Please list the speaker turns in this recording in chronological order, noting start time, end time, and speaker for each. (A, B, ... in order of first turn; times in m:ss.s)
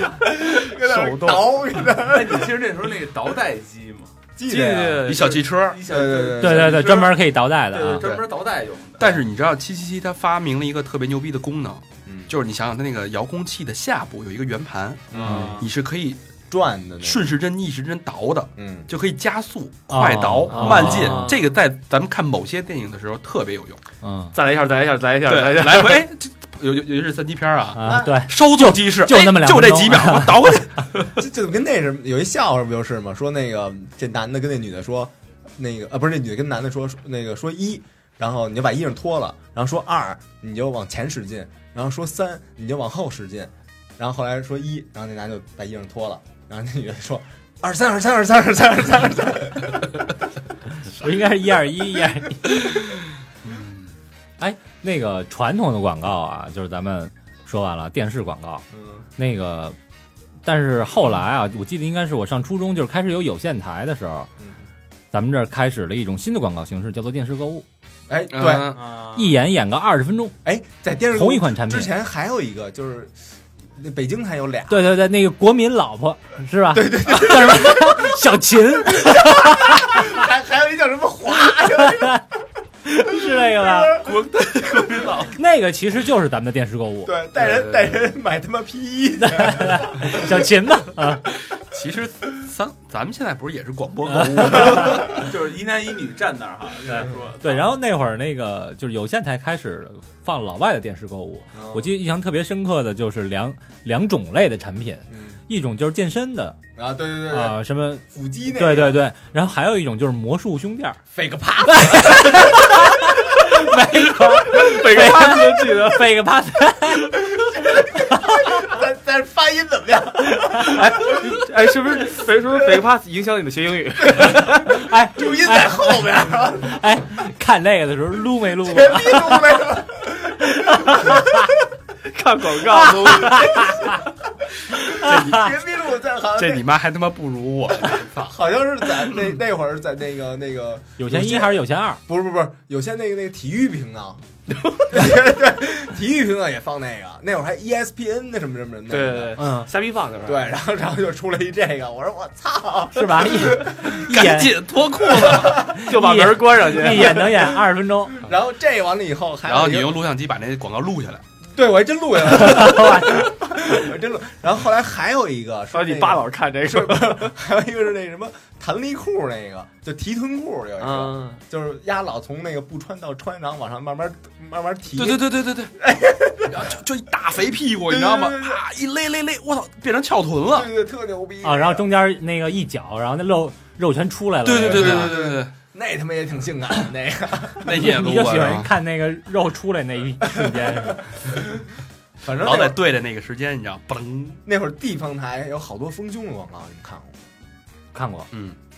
0:00.2-0:02.6 A
0:00.8-0:01.5 B
0:02.0-0:04.1 C
0:04.4-0:05.1 A
0:04.5-0:05.3 B
0:05.1-0:05.8 D
0:05.2-0:09.2 C
0:05.8-0:07.0 A
0:06.4-0:08.1 E
0:09.0-0:16.2 D
0:12.0-0:12.3 A
0:15.1-0:15.6 A
0:15.2-0:15.6 C
0:16.5-0:17.3 A
0:17.0-0:23.8 D
0:18.6-0:18.9 A
0:19.9-0:21.3 E
0:20.5-0:21.4 B
0:24.0-0:24.3 E
0:24.3-0:26.0 B
0:25.2-0:31.2 D
0:27.8-0:30.6 E
0:27.8-0:28.2 A
0:31.2-0:50.0 A
0:50.9-0:52.7 E
0:53.4-0:53.9 D
0:54.4-0:58.6 E
0:58.7-0:59.0 A
0:59.2-0:59.8 E
1:00.4-1:04.3 E
1:05.1-1:07.6 E
1:08.1-1:08.8 A
1:08.3-1:08.8 D
1:08.7-1:09.4 C
1:09.1-1:10.4 E
1:10.4-1:13.1 A
1:11.1-1:11.9 E
1:13.7-1:14.9 A
1:14.7-1:20.0 E
1:16.7-1:18.2 A
1:18.9-1:22.2 A
1:21.9-1:22.2 E
1:22.9-1:24.0 E
1:23.2-1:24.0 A
1:24.1-1:25.3 C
1:25.4-1:27.2 E
1:27.0-1:30.3 A
1:27.4-1:28.1 D
1:29.2-1:31.2 E
1:31.5-1:35.2 D
1:34.2-1:35.0 E
1:35.0-1:37.7 C
1:36.9-1:46.6 E
1:41.5-1:41.9 A
1:45.1-1:45.4 A
1:46.8-1:47.6 A
1:47.3-1:51.0 E
1:48.1-1:49.0 A
1:51.1-1:52.7 A
1:51.7-1:57.2 E
1:54.5-1:56.0 B
1:57.3-2:00.9 A
2:00.7-2:04.7 B
2:04.6-2:09.6 E
2:05.1-2:06.8 A
2:08.6-2:11.3 A
2:10.6-2:11.3 E
2:12.0-2:13.5 B
2:12.9-2:13.8 E
2:13.3-2:13.7 A
2:14.7-2:16.6 A
2:14.9-2:15.4 E
2:16.3-2:18.4 D
2:18.2-2:24.2 A
2:21.0-2:22.0 E
2:24.9-2:29.3 A
2:28.9-2:30.5 B
2:29.4-2:29.7 E
2:30.2-2:34.0 A
2:32.9-2:34.6 E
2:34.0-2:35.7 D
2:35.2-2:35.8 A
2:35.5-2:38.2 E
2:35.8-2:37.4 B
2:38.2-2:40.0 A
2:39.4-2:41.2 D
2:41.5-2:56.7 A
2:42.4-2:43.3 E
2:45.7-2:47.3 B
2:50.8-2:51.4 B
2:54.9-2:55.7 D
2:56.5-3:00.7 D
2:57.9-2:58.6 A
3:00.5-3:01.9 A
3:01.4-3:05.2 E
3:04.4-3:05.5 D
3:04.6-3:07.7 A
3:07.6-3:08.7 D
3:07.7-3:11.0 E
3:12.2-3:12.8 A
3:12.3-3:14.4 D
3:14.4-3:17.2 A
3:17.9-3:18.3 E